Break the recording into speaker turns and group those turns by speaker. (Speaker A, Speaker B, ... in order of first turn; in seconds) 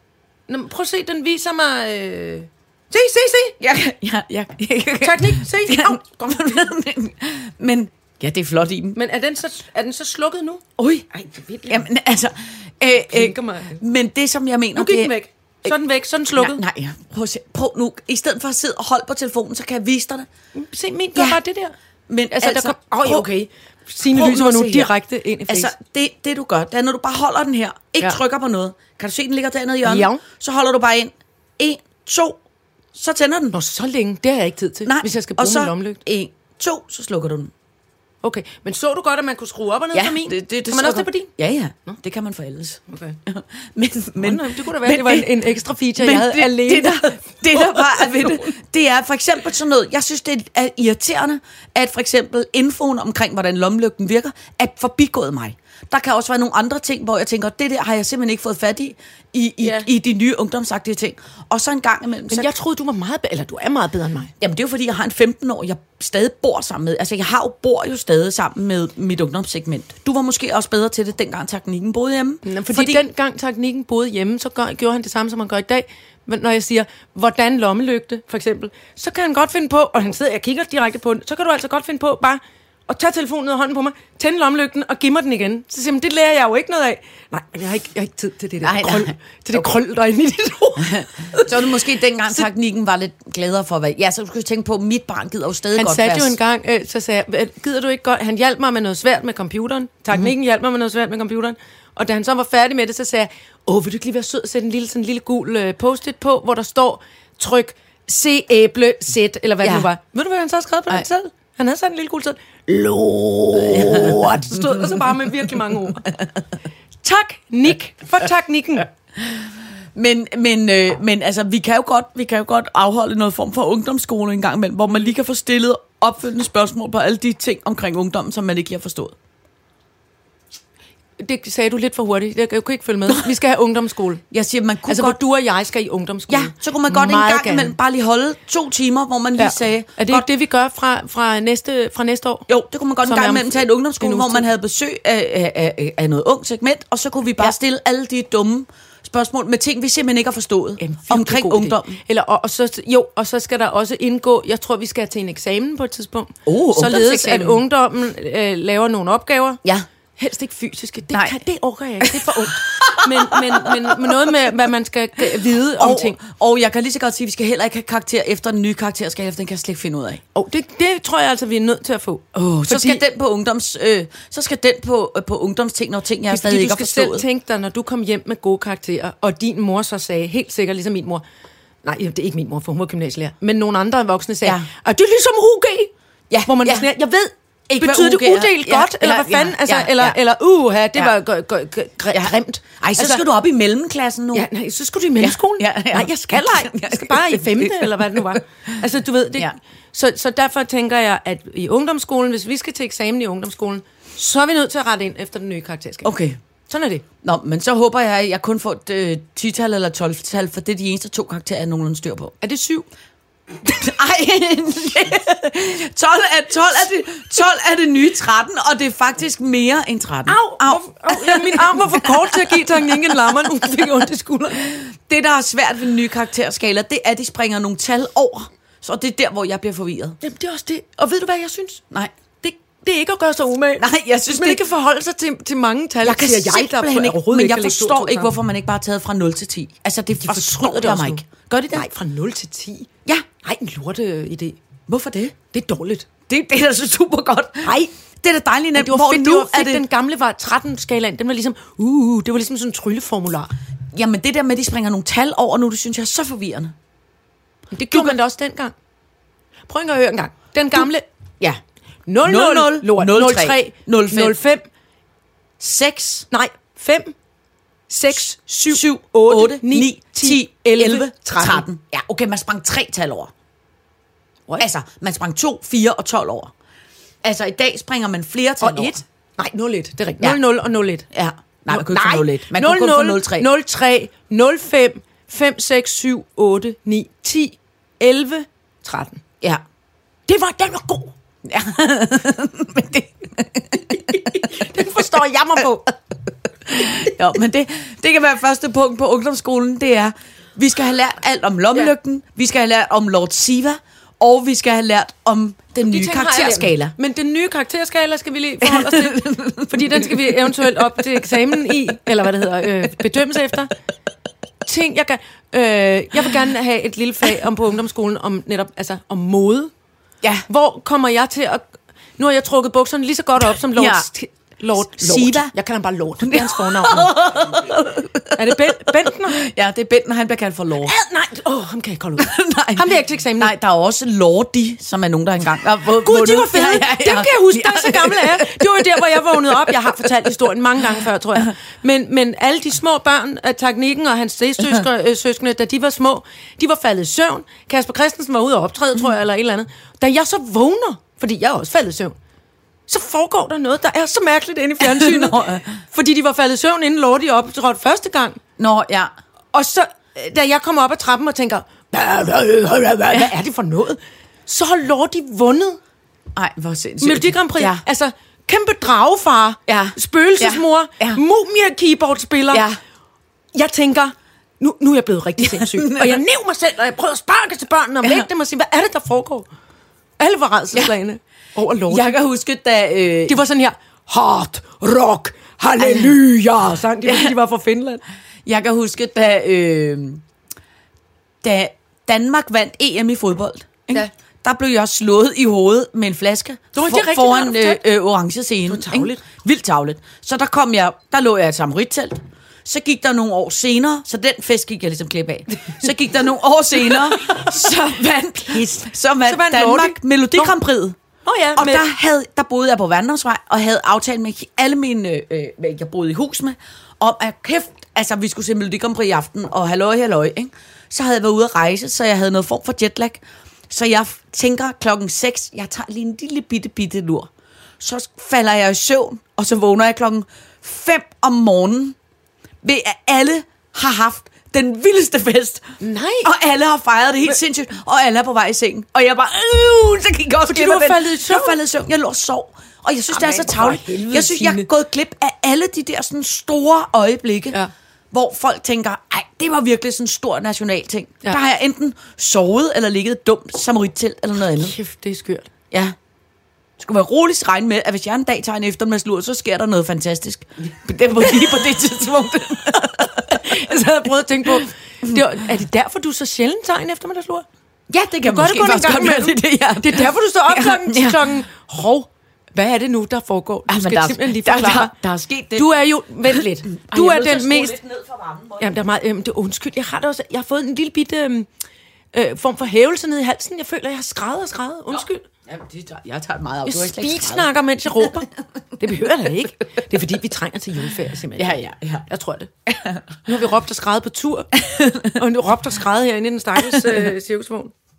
Speaker A: 0.5-3.6, 5.0-6.0, 9.0-11.8, 13.1-13.8, 14.8-16.6, 20.6-21.7, 22.3-25.7, 29.8-30.2, 33.5-36.0, 38.2-41.3, 42.9-43.2, 44.2-48.5, 59.6-59.9, 62.3-64.3, 72.5-91.7, 95.8-116.1, 117.0-118.9, 131.2-134.2, 134.9-137.8, 139.4-142.5, 143.0-144.5, 150.8-159.6, 160.2-166.2, 170.3-173.0, 176.3-181.2, 181.8-185.9, 186.4-193.2, 194.3-206.1, 206.7-207.1, 212.4-212.9, 220.3-224.7, 230.2-231.8, 232.4-238.3, 240.2-242.9, 243.4-244.6, 245.5-246.1, 247.6-247.9, 248.8-253.5, 257.7-258.7, 259.7-261.1, 262.1-264.7, 266.3-267.1, 267.9-271.7, 278.6-281.1, 281.7-289.2, 290.3-291.1, 294.1-295.9, 305.9-313.7, 314.6-319.7, 320.5-321.7, 322.2-327.2, 328.3-329.4, 330.8-333.5, 336.0-352.2, 352.9-358.4, 359.5-365.8, 367.0-372.7, 373.5-379.5, 380.2-382.1, 383.3-388.0, 396.7-397.8, 398.7-399.2, 406.9-407.5, 408.5-410.6, 411.2-411.9, 435.8-436.3, 440.5-441.6, 443.1-444.7, 454.6-455.5, 463.1-467.5, 468.2-474.9, 475.6-477.8, 478.6-481.5, 482.1-485.2, 486.7-492.5, 493.2-497.7
Speaker B: 3.6-9.0, 10.8-11.1, 11.7-15.7, 16.4-20.3, 21.1-21.4, 22.1-23.3, 24.0-24.9, 25.5-32.4, 32.9-33.6, 34.9-37.5, 39.9-45.4, 46.0-62.5, 64.4-73.0, 88.6-89.7, 90.8-96.4, 109.6-109.9, 113.5-116.3, 119.2-129.2, 134.3-135.2, 136.3-140.3, 142.5-152.0, 156.5-157.6, 162.0-164.3, 165.8-170.2, 172.3-177.2, 184.4-184.7, 186.3-186.9, 187.7-190.2, 192.1-194.5, 195.2-198.4, 206.0-206.4, 207.2-212.3, 213.6-223.8, 224.5-230.2, 233.8-234.6, 236.0-241.9, 244.9-245.4, 246.3-249.8, 253.9-256.8, 257.9-258.2, 262.2-264.4, 265.6-266.3, 268.7-273.3, 274.6-276.5, 277.2-279.0, 281.1-283.5, 291.4-294.6, 296.7-306.9, 308.6-310.8, 323.5-324.1, 324.8-325.5, 326.2-330.9, 332.2-340.1, 354.8-355.8, 358.6-359.1, 366.4-367.8, 369.7-371.2, 372.5-372.8, 375.4-376.2, 381.9-383.4, 385.8-386.2, 387.1-387.3, 388.4-390.2, 391.4-411.0, 411.6-432.0, 432.6-435.7, 436.2-447.6, 448.1-454.8, 456.8-463.6, 464.5-465.2, 467.9-471.3, 473.7-475.7, 476.3-478.8, 484.9-488.1, 491.4-492.1, 492.7-493.0, 494.6-495.1, 496.6-497.1